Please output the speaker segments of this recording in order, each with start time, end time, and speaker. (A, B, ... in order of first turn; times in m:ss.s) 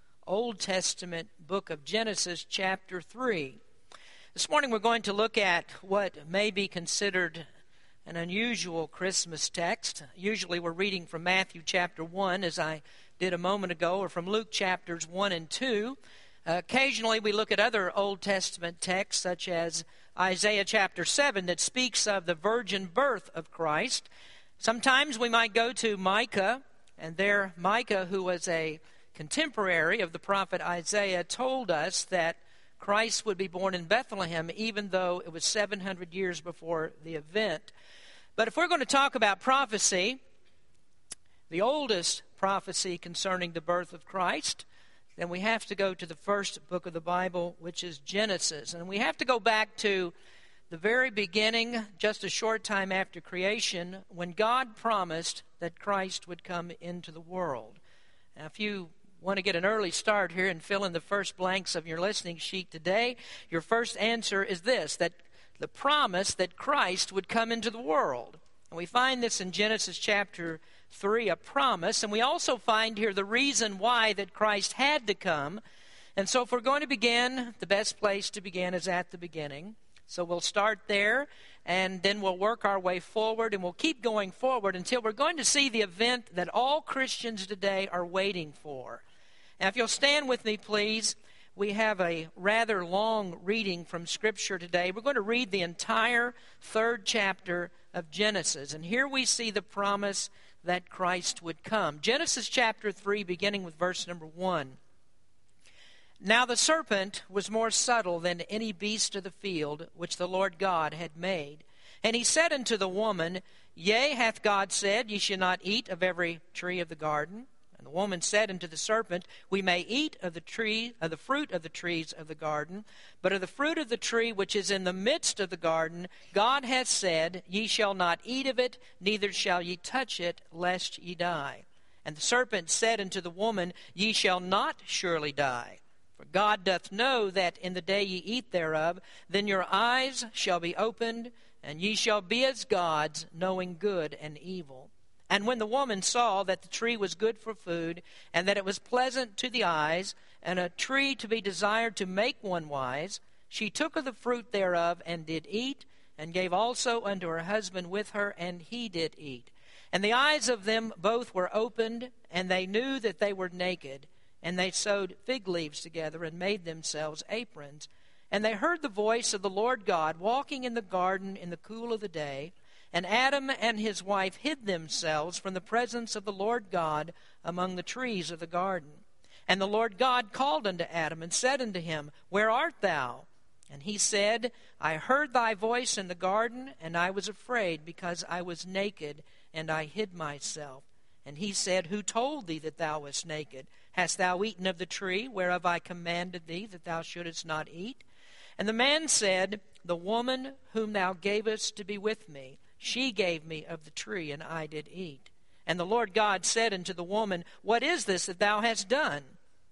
0:00.2-0:03.6 A
0:04.3-0:07.4 A
0:08.0-0:24.1 A
0:24.6-0:37.7 A
0:38.4-0:40.2 A
0:41.5-0:44.6 A
0:45.2-0:50.1 A
0:50.7-0:57.8 A
0:58.4-1:15.6 A
1:16.2-1:29.0 A
1:29.6-1:44.8 A
1:46.2-3:18.0 A
3:18.6-3:29.3 A